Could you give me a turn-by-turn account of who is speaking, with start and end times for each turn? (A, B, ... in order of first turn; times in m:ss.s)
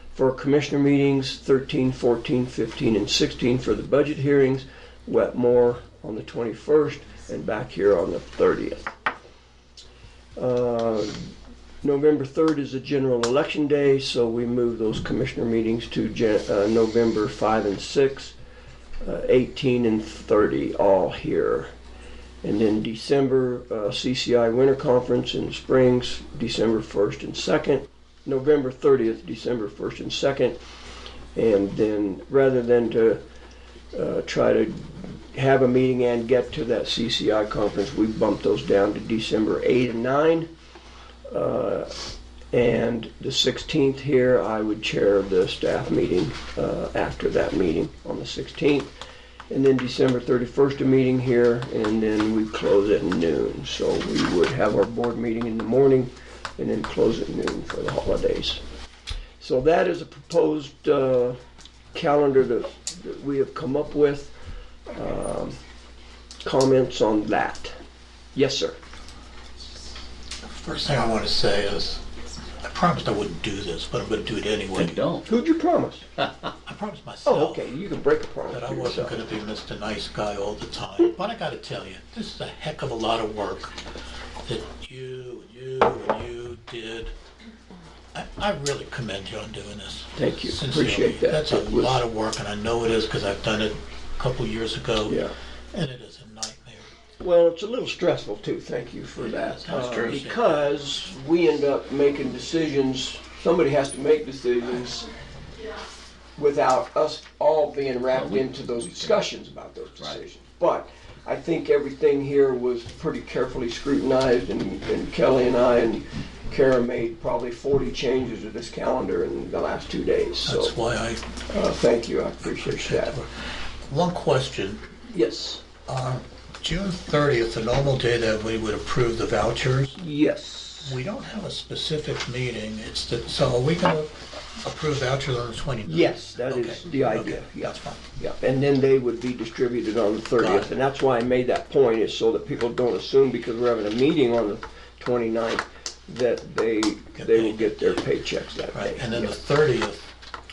0:00.1-0:08.9 A
0:10.4-0:18.3 A
0:19.0-0:21.7 A
0:22.4-0:30.6 A
0:31.3-0:33.2 A
0:33.9-0:40.5 A
0:41.3-0:41.9 A
0:42.5-0:48.9 A
0:49.5-0:58.6 A
0:59.4-1:01.4 A
1:01.9-1:04.3 A
1:04.9-1:05.6 A
1:06.4-1:07.7 A
1:08.3-1:08.8 A
1:10.4-1:12.0 B
1:12.6-1:15.0 B
1:14.8-1:15.3 C
1:15.2-1:16.0 A
1:16.6-1:17.6 B
1:17.2-1:19.2 A
1:18.5-1:23.8 B
1:24.4-1:27.1 B
1:28.1-1:36.9 B
1:30.2-1:32.0 A
1:35.1-1:35.3 A
1:37.2-1:45.1 A
1:39.2-1:40.7 B
1:39.7-1:40.2 C
1:46.4-2:00.8 A
1:48.1-1:49.2 C
2:00.4-2:01.2 B
2:01.5-2:03.2 A
2:02.4-2:03.3 B
2:03.8-2:04.8 B
2:05.1-2:05.6 A
2:05.9-2:10.0 B
2:10.0-2:11.0 A
2:10.8-2:18.0 B
2:15.8-2:29.3 A
2:20.4-2:20.7 B
2:27.2-2:28.1 B
2:28.7-2:30.1 B